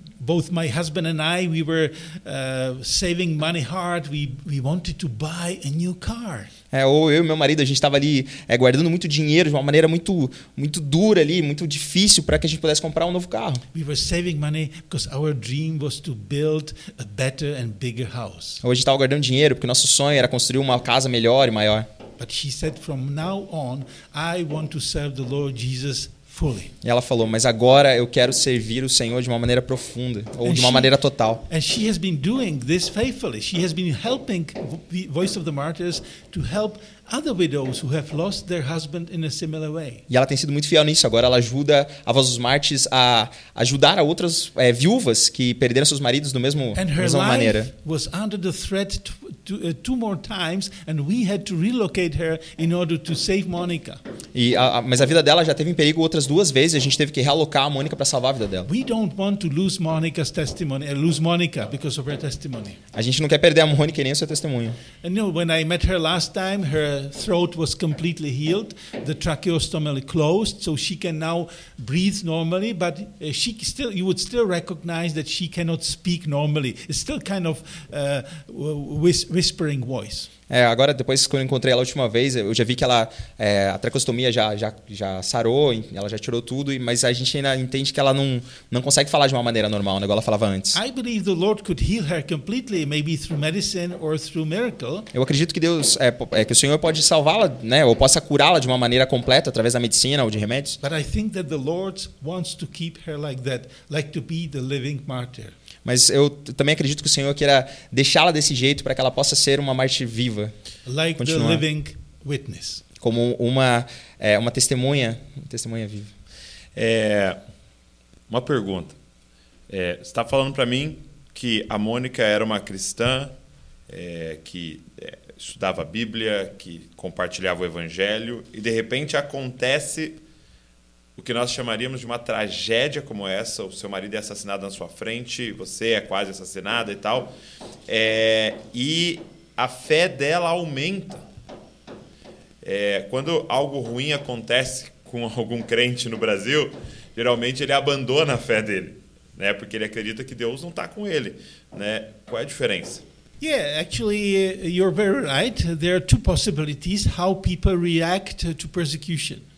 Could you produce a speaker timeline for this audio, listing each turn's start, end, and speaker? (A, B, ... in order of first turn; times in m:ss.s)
0:00.2-0:06.5 A
0:06.7-0:13.6 B
0:13.7-0:18.6 A
0:18.6-0:21.9 B
0:22.2-0:26.7 A
0:26.8-0:31.4 B
0:30.4-0:30.9 A
0:31.5-0:40.0 A
0:40.1-0:47.7 B
0:46.7-0:54.0 A
0:54.3-0:58.7 B
0:58.6-1:02.8 A
1:02.9-1:04.8 B
1:05.0-1:20.3 A
1:20.5-1:30.8 B
1:30.7-1:35.1 A
1:35.1-1:40.8 B
1:40.8-1:45.5 A
1:45.8-1:50.5 B
1:50.8-1:52.8 A
1:51.2-1:51.6 B
1:53.0-1:56.1 B
1:56.7-1:57.4 C
1:58.3-1:58.9 C
1:59.7-2:03.3 C
2:03.9-2:10.2 C
2:11.2-2:17.3 C
2:17.9-2:21.2 C
2:22.6-2:33.0 C
2:33.4-2:39.4 A